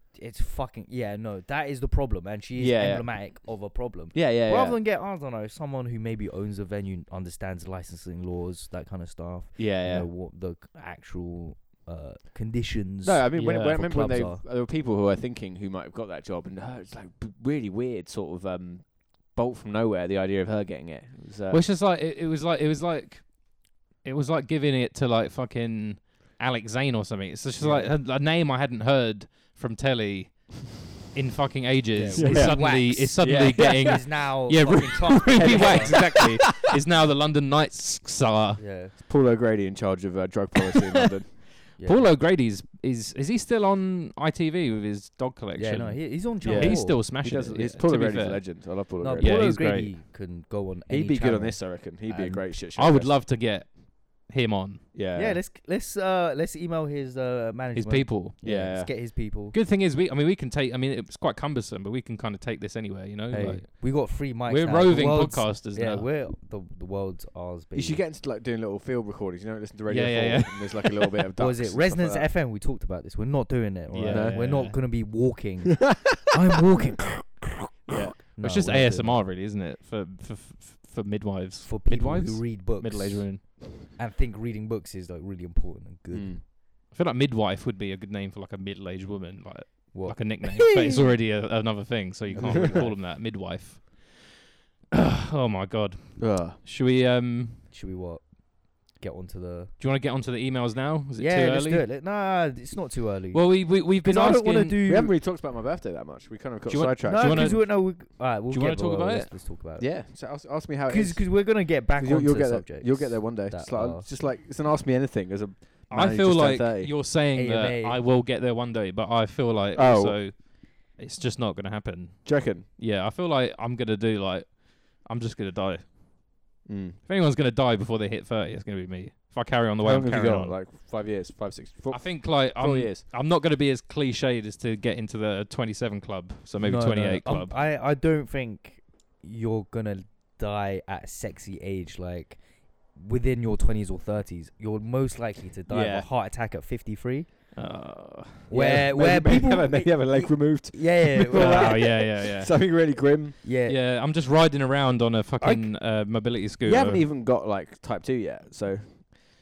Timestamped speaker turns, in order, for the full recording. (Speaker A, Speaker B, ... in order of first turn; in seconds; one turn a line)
Speaker A: 0.1-14.4
Speaker B: 2.6-3.6
Speaker B: 4.1-4.8
Speaker B: 9.6-10.1
Speaker B: 13.0-21.6
Speaker C: 13.3-13.8
Speaker C: 21.5-38.6
Speaker B: 27.6-27.9
Speaker B: 31.9-34.0
Speaker A: 32.1-36.1
Speaker B: 35.3-36.6
Speaker A: 38.6-38.9
Speaker B: 39.0-41.4
Speaker C: 41.3-49.9
Speaker A: 41.8-42.1
Speaker A: 45.6-47.0
Speaker B: 46.4-49.6
Speaker A: 49.0-52.5
Speaker B: 50.9-53.2
Speaker C: 52.7-54.8
Speaker B: 54.9-55.4
Speaker A: 55.1-59.5
Speaker C: 57.8-58.4
Speaker B: 58.4-58.9
Speaker C: 59.5-66.1
Speaker A: 63.3-68.0
Speaker B: 67.7-72.3
Speaker C: 69.9-71.2
Speaker A: 71.4-79.2
Speaker C: 73.9-74.8
Speaker B: 74.1-74.4
Speaker B: 77.9-78.2
Speaker C: 78.4-83.6
Speaker A: 81.6-86.4
Speaker B: 86.1-86.4
Speaker C: 86.9-94.2
Speaker A: 89.9-91.0
Speaker B: 92.3-92.9
Speaker A: 92.3-93.0
Speaker C: 94.9-97.6
Speaker B: 96.2-96.6
Speaker A: 97.7-99.7
Speaker C: 99.8-101.9
Speaker A: 101.2-105.2
Speaker C: 103.3-104.8
Speaker B: 104.8-107.6
Speaker C: 106.7-108.0
Speaker A: 107.0-110.1
Speaker C: 108.5-109.3
Speaker B: 109.8-117.0
Speaker A: 110.9-114.1
Speaker C: 115.9-125.9
Speaker A: 117.3-118.0
Speaker B: 119.7-120.2
Speaker B: 122.2-122.7
Speaker B: 126.6-127.0
Speaker C: 127.1-130.6
Speaker B: 129.8-133.1
Speaker C: 131.9-137.5
Speaker A: 136.6-142.4
Speaker A: 142.9-147.5
Speaker B: 145.7-146.1
Speaker C: 147.6-148.5
Speaker A: 148.5-151.8
Speaker B: 148.5-153.4
Speaker C: 151.3-152.6
Speaker A: 153.4-153.8
Speaker C: 153.7-157.1
Speaker A: 155.4-155.7
Speaker B: 156.6-159.3